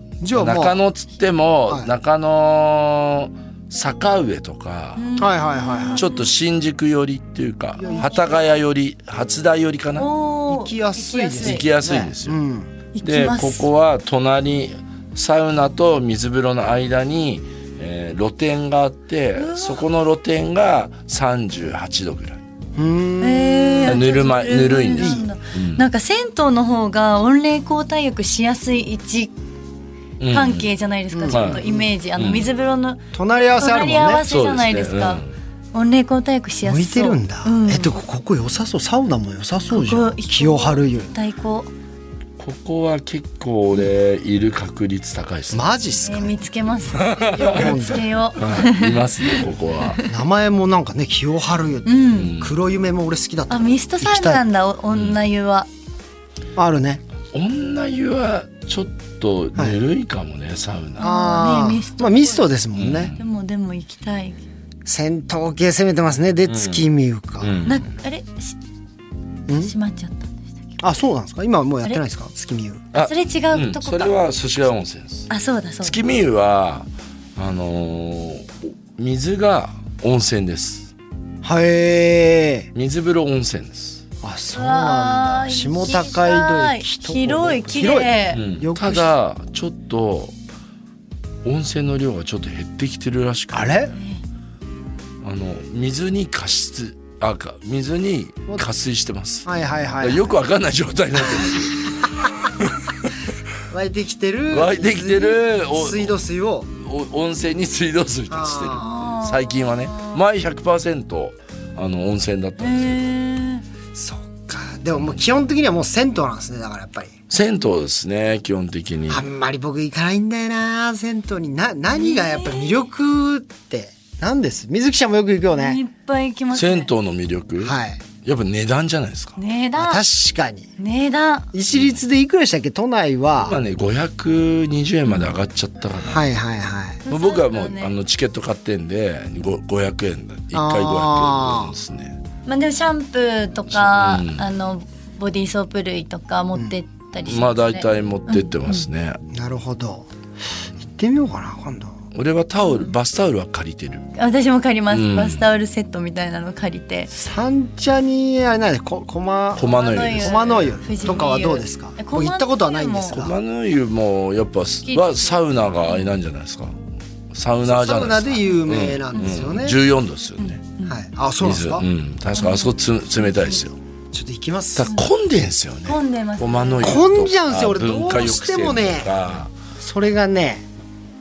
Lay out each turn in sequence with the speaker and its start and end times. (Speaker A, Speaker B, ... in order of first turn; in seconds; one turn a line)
Speaker A: 0.2-0.8
Speaker B: 0.3-5.2
Speaker C: 5.0-6.2
Speaker A: 5.2-6.0
Speaker B: 6.0-10.1
Speaker A: 7.8-8.2
Speaker C: 7.8-8.2
Speaker C: 9.9-11.6
Speaker A: 10.5-12.7
Speaker B: 11.4-12.4
Speaker C: 12.9-13.7
Speaker B: 13.0-22.4
Speaker C: 19.3-19.8
Speaker A: 22.8-24.0
Speaker C: 23.2-29.3
Speaker B: 23.8-25.8
Speaker A: 24.9-25.2
Speaker B: 30.2-30.7
Speaker C: 30.3-33.0
Speaker A: 31.1-31.9
Speaker B: 31.3-31.6
Speaker B: 32.1-32.5
Speaker A: 33.1-34.2
Speaker C: 33.6-35.2
Speaker B: 34.2-35.3
Speaker C: 35.7-38.0
Speaker A: 36.6-41.1
Speaker C: 39.7-41.7
Speaker B: 42.4-45.7
Speaker A: 45.5-46.4
Speaker C: 46.0-50.1
Speaker B: 46.9-47.8
Speaker A: 47.3-48.1
Speaker B: 48.3-50.0
Speaker A: 50.0-54.4
Speaker C: 51.9-52.3
Speaker B: 52.1-52.6
Speaker C: 53.5-55.7
Speaker B: 54.9-55.2
Speaker A: 56.5-57.0
Speaker B: 57.3-61.1
Speaker C: 61.0-62.5
Speaker A: 61.0-63.1
Speaker B: 62.7-63.2
Speaker C: 63.1-64.4
Speaker A: 64.8-67.5
Speaker B: 66.5-66.9
Speaker B: 67.4-67.8
Speaker C: 67.7-68.5
Speaker A: 69.5-69.7
Speaker C: 69.5-70.8
Speaker A: 70.8-72.9
Speaker B: 72.9-75.3
Speaker C: 72.9-74.1
Speaker C: 75.3-76.0
Speaker B: 75.8-80.9
Speaker A: 81.4-82.7
Speaker B: 82.7-84.0
Speaker A: 84.2-89.1
Speaker C: 84.5-88.4
Speaker B: 88.3-90.3
Speaker B: 91.4-93.9
Speaker A: 93.5-93.9
Speaker C: 93.9-94.2
Speaker B: 95.2-99.5
Speaker A: 99.4-100.3
Speaker B: 100.0-102.1
Speaker A: 101.2-102.5
Speaker B: 102.6-103.1
Speaker A: 103.7-106.7
Speaker B: 104.5-106.2
Speaker B: 106.8-113.1
Speaker A: 108.3-109.1
Speaker C: 108.8-110.2
Speaker C: 112.6-113.6
Speaker A: 113.9-117.2
Speaker B: 117.3-119.2
Speaker A: 119.1-125.8
Speaker C: 121.9-122.8
Speaker C: 125.5-126.9
Speaker B: 126.5-129.4
Speaker A: 127.6-128.0
Speaker C: 129.4-130.0
Speaker A: 129.8-130.7
Speaker C: 130.8-131.5
Speaker A: 131.5-133.6
Speaker B: 131.7-132.0
Speaker B: 133.4-136.2
Speaker A: 136.0-137.0
Speaker C: 137.1-137.9
Speaker B: 137.1-142.2
Speaker A: 140.5-141.7
Speaker C: 142.4-148.8
Speaker B: 143.7-144.4
Speaker B: 147.2-149.2
Speaker A: 149.3-150.1
Speaker A: 150.8-152.0
Speaker B: 152.1-154.0
Speaker C: 152.6-152.9
Speaker C: 154.2-157.1
Speaker B: 154.9-155.4
Speaker A: 157.1-163.4
Speaker B: 159.6-161.3
Speaker C: 159.6-163.2
Speaker B: 163.1-166.8
Speaker C: 164.8-166.1
Speaker B: 167.3-170.7
Speaker A: 167.6-169.8
Speaker C: 170.4-171.0
Speaker A: 170.8-171.8
Speaker B: 171.4-173.8
Speaker C: 172.3-173.6
Speaker A: 174.1-174.9
Speaker B: 174.8-179.5
Speaker C: 175.8-177.0
Speaker A: 176.8-179.1
Speaker A: 179.8-180.7